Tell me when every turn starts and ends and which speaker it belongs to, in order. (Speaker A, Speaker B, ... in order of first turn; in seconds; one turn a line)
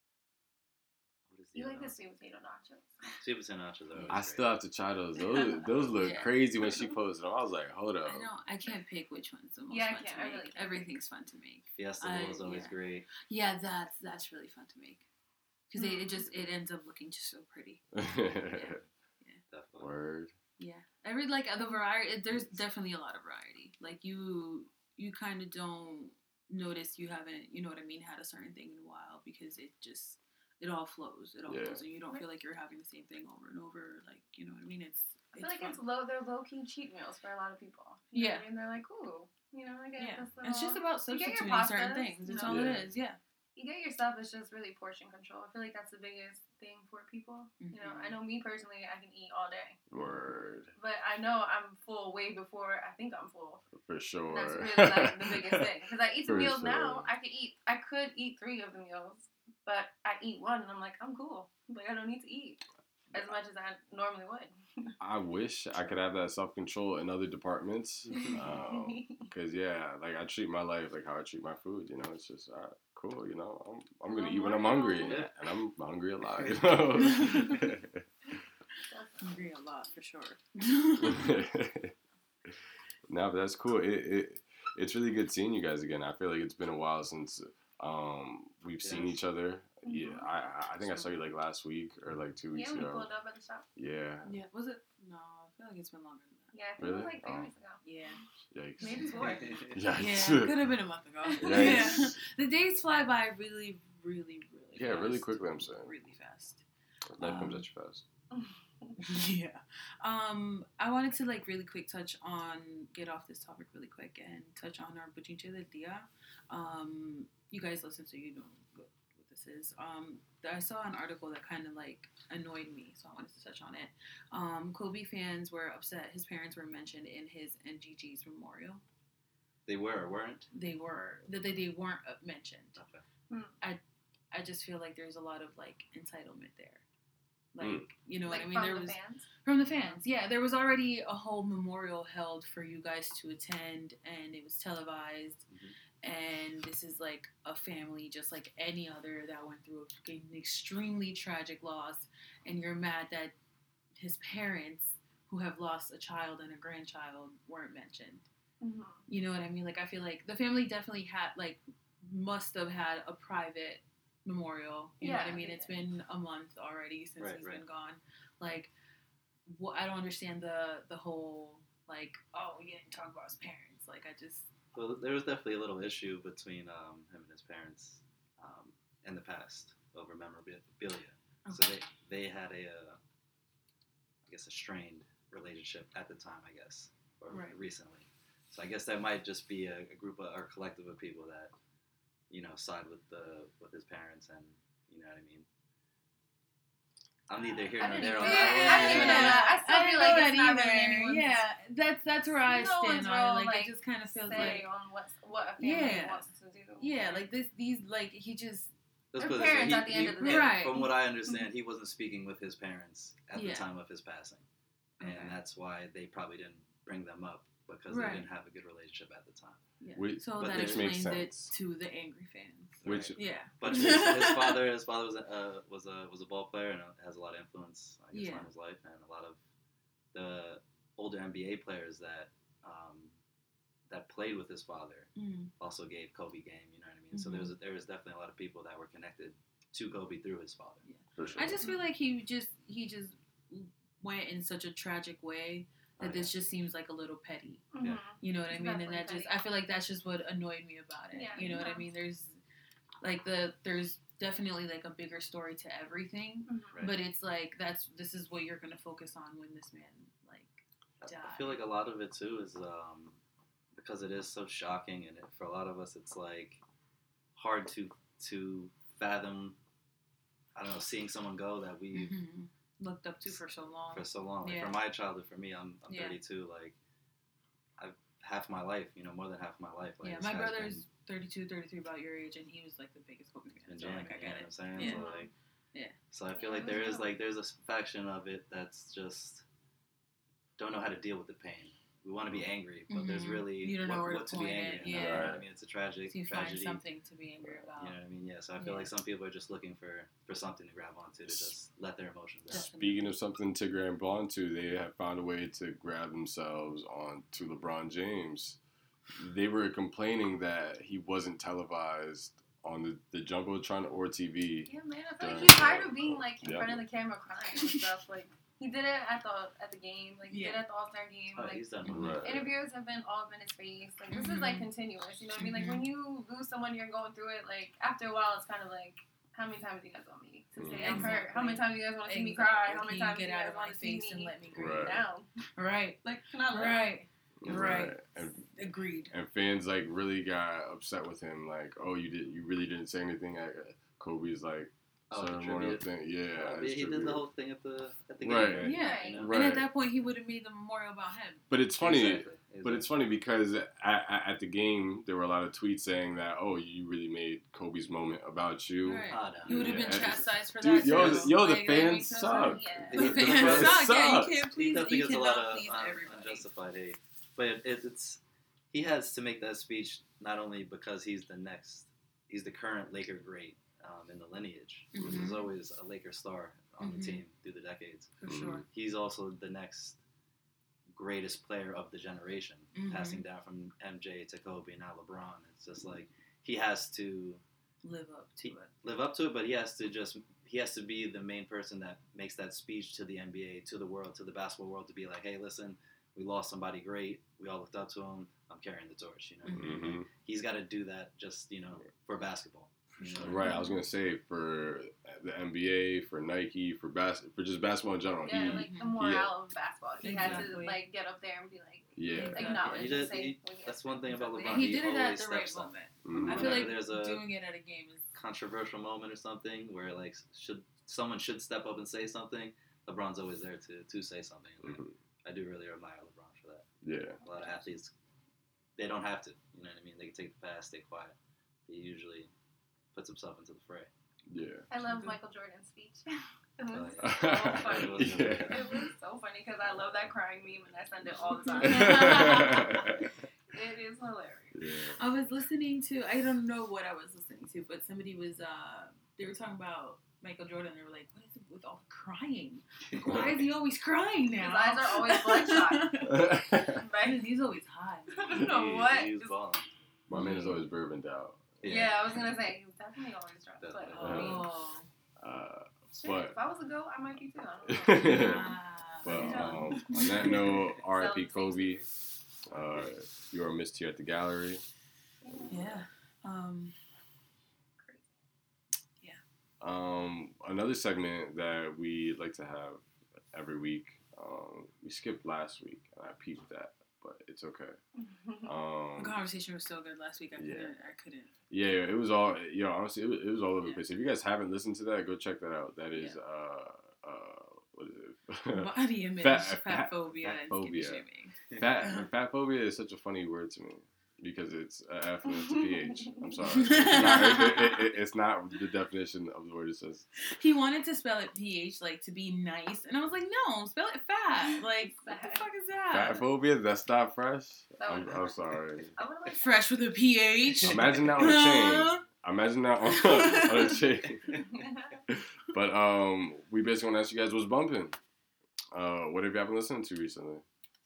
Speaker A: 1.3-1.9
Speaker B: 1.5-3.2
Speaker A: 3.2-4.5
Speaker C: 4.1-8.3
Speaker B: 5.2-5.7
Speaker D: 6.0-6.3
Speaker B: 6.6-6.9
Speaker D: 8.1-15.1
Speaker B: 9.7-10.9
Speaker A: 11.7-13.1
Speaker D: 15.7-19.4
Speaker B: 15.8-16.3
Speaker C: 17.9-18.8
Speaker A: 19.5-19.9
Speaker C: 19.8-20.3
Speaker D: 20.6-35.8
Speaker C: 31.5-31.8
Speaker B: 35.4-42.6
Speaker D: 38.1-38.4
Speaker D: 40.0-43.2
Speaker C: 42.4-42.9
Speaker B: 43.5-49.8
Speaker D: 47.6-48.1
Speaker C: 49.9-50.7
Speaker B: 50.7-53.6
Speaker C: 53.8-55.7
Speaker B: 54.3-65.0
Speaker C: 56.2-57.1
Speaker C: 65.0-78.0
Speaker B: 68.4-69.2
Speaker B: 74.1-75.2
Speaker A: 75.0-75.3
Speaker D: 77.1-77.5
Speaker B: 78.9-79.5
Speaker D: 79.2-81.3
Speaker C: 81.0-81.9
Speaker C: 83.1-93.1
Speaker A: 88.8-89.2
Speaker B: 89.8-90.3
Speaker B: 92.5-93.7
Speaker C: 93.8-94.3
Speaker D: 94.2-96.5
Speaker B: 96.5-98.2
Speaker C: 96.8-97.5
Speaker D: 97.8-98.2
Speaker C: 98.5-99.1
Speaker B: 98.8-99.7
Speaker D: 98.8-99.2
Speaker A: 99.2-99.8
Speaker C: 99.7-100.5
Speaker D: 99.9-106.6
Speaker B: 101.2-102.0
Speaker C: 101.4-102.2
Speaker C: 104.7-105.9
Speaker C: 107.1-108.0
Speaker D: 107.2-107.6
Speaker B: 108.3-109.0
Speaker D: 109.0-128.8
Speaker A: 129.7-130.5
Speaker D: 130.5-132.8
Speaker A: 132.8-133.0
Speaker B: 133.3-133.5
Speaker D: 134.3-136.8
Speaker D: 137.5-145.4
Speaker C: 137.6-137.9
Speaker B: 138.2-140.0
Speaker A: 145.5-145.7
Speaker D: 146.0-153.3
Speaker D: 153.9-158.2
Speaker B: 158.6-159.0
Speaker D: 159.1-168.7
Speaker B: 165.0-165.7
Speaker A: 167.2-167.6
Speaker D: 169.5-174.5
Speaker A: 174.7-183.0
Speaker D: 181.4-181.8
Speaker A: 184.2-191.5
Speaker D: 187.3-187.6
Speaker A: 192.3-195.4
Speaker A: 197.3-199.4
Speaker B: 197.4-201.4
Speaker D: 197.8-204.7
Speaker B: 202.4-207.2
Speaker A: 204.3-204.6
Speaker D: 205.6-206.3
Speaker D: 206.8-208.7
Speaker A: 209.1-214.4
Speaker B: 209.2-211.4
Speaker D: 210.2-210.9
Speaker D: 213.3-213.7
Speaker D: 215.0-215.4
Speaker A: 215.0-219.6
Speaker D: 217.9-218.3
Speaker D: 219.8-224.6
Speaker C: 219.9-221.5
Speaker A: 220.4-220.9
Speaker A: 222.8-229.4
Speaker C: 222.8-223.2
Speaker D: 228.1-228.5
Speaker A: 230.1-233.1
Speaker A: 233.9-241.5
Speaker D: 235.2-235.5
Speaker D: 237.1-237.5
Speaker D: 240.8-247.6
Speaker C: 241.2-241.6
Speaker A: 246.0-246.3
Speaker B: 247.7-249.3
Speaker D: 248.2-252.4
Speaker B: 251.1-251.9
Speaker D: 253.0-261.6
Speaker B: 256.5-256.8
Speaker A: 256.7-257.0
Speaker A: 261.0-263.2
Speaker A: 263.7-266.6
Speaker A: 267.3-269.6
Speaker A: 270.5-272.1
Speaker D: 271.9-274.8
Speaker A: 273.9-276.8
Speaker D: 275.9-276.2
Speaker A: 277.8-280.8
Speaker D: 280.0-285.1
Speaker A: 283.7-285.3
Speaker B: 284.8-285.3
Speaker A: 286.1-289.4
Speaker B: 286.4-287.2
Speaker A: 290.6-296.8
Speaker D: 292.9-295.4
Speaker C: 294.8-295.4
Speaker D: 296.1-298.0
Speaker A: 297.7-302.7
Speaker D: 298.6-298.9
Speaker C: 301.2-301.5
Speaker D: 302.5-303.1
Speaker C: 302.5-308.6
Speaker C: 309.1-316.8
Speaker B: 314.7-335.3
Speaker D: 320.3-320.6
Speaker A: 321.3-322.4
Speaker C: 321.9-322.5
Speaker D: 324.1-324.7
Speaker D: 325.4-325.9
Speaker C: 330.6-331.2
Speaker D: 330.8-335.0
Speaker C: 334.5-335.0
Speaker D: 335.6-339.1
Speaker B: 336.0-337.0
Speaker C: 337.4-338.5
Speaker C: 339.1-347.2
Speaker A: 345.1-349.4
Speaker C: 348.2-349.7
Speaker D: 348.6-351.4
Speaker B: 348.7-349.3
Speaker C: 351.5-364.4
Speaker A: 351.8-352.9
Speaker D: 358.8-366.5
Speaker A: 359.1-360.0
Speaker A: 360.7-361.3
Speaker B: 362.2-363.1
Speaker A: 362.9-364.0
Speaker A: 364.5-368.2
Speaker A: 368.7-380.0
Speaker D: 374.9-375.5
Speaker C: 374.9-375.3
Speaker D: 376.8-377.2
Speaker D: 378.2-378.6
Speaker C: 378.3-378.6
Speaker A: 380.9-387.4
Speaker D: 382.7-383.2
Speaker D: 387.8-388.7
Speaker A: 388.4-403.4
Speaker D: 399.4-399.9
Speaker C: 399.5-400.1
Speaker D: 402.9-403.8
Speaker C: 403.2-409.3
Speaker B: 408.2-414.9
Speaker D: 408.4-409.0
Speaker D: 410.0-410.8
Speaker C: 410.2-410.5
Speaker C: 411.9-412.5
Speaker D: 412.1-413.1
Speaker A: 412.5-417.2
Speaker D: 414.4-418.0
Speaker C: 416.0-416.8
Speaker A: 418.1-426.7
Speaker C: 424.6-424.9
Speaker C: 426.8-427.2
Speaker A: 427.2-427.9
Speaker A: 428.8-431.1
Speaker A: 431.7-432.3
Speaker A: 432.9-433.9
Speaker C: 434.3-434.6
Speaker B: 434.7-443.0
Speaker D: 434.8-435.2
Speaker A: 436.7-438.7
Speaker C: 437.0-438.7
Speaker C: 441.5-443.0
Speaker D: 441.6-442.7
Speaker B: 443.5-444.5
Speaker C: 444.5-445.0
Speaker D: 445.0-456.3
Speaker C: 453.0-453.4
Speaker B: 454.3-457.3
Speaker C: 456.1-456.8
Speaker D: 457.0-458.2
Speaker B: 458.1-459.3
Speaker A: 458.3-459.7
Speaker C: 460.1-461.5
Speaker D: 460.1-460.6
Speaker A: 461.6-462.2
Speaker B: 461.6-464.4
Speaker A: 463.6-464.4
Speaker D: 463.9-464.9
Speaker C: 464.0-464.4
Speaker C: 465.2-466.3
Speaker B: 465.9-471.9
Speaker C: 467.6-471.8
Speaker D: 467.9-470.6
Speaker A: 470.3-470.7
Speaker A: 472.5-472.9
Speaker C: 472.5-474.6
Speaker B: 475.2-475.8
Speaker D: 475.5-476.7
Speaker B: 477.8-478.1
Speaker C: 479.6-487.8
Speaker B: 487.9-488.5
Speaker C: 488.4-489.2
Speaker D: 488.9-491.3
Speaker C: 490.4-490.7
Speaker C: 491.5-501.0
Speaker D: 498.5-502.1
Speaker C: 501.6-510.0
Speaker B: 505.2-506.4
Speaker D: 506.5-507.9
Speaker D: 510.3-516.2
Speaker B: 514.8-515.4
Speaker C: 515.9-518.9
Speaker B: 517.8-518.4
Speaker B: 518.9-519.6
Speaker D: 519.3-522.0
Speaker C: 520.6-524.4
Speaker A: 520.6-521.1
Speaker D: 522.9-523.8
Speaker B: 524.3-525.0
Speaker C: 525.1-528.0
Speaker C: 528.7-530.4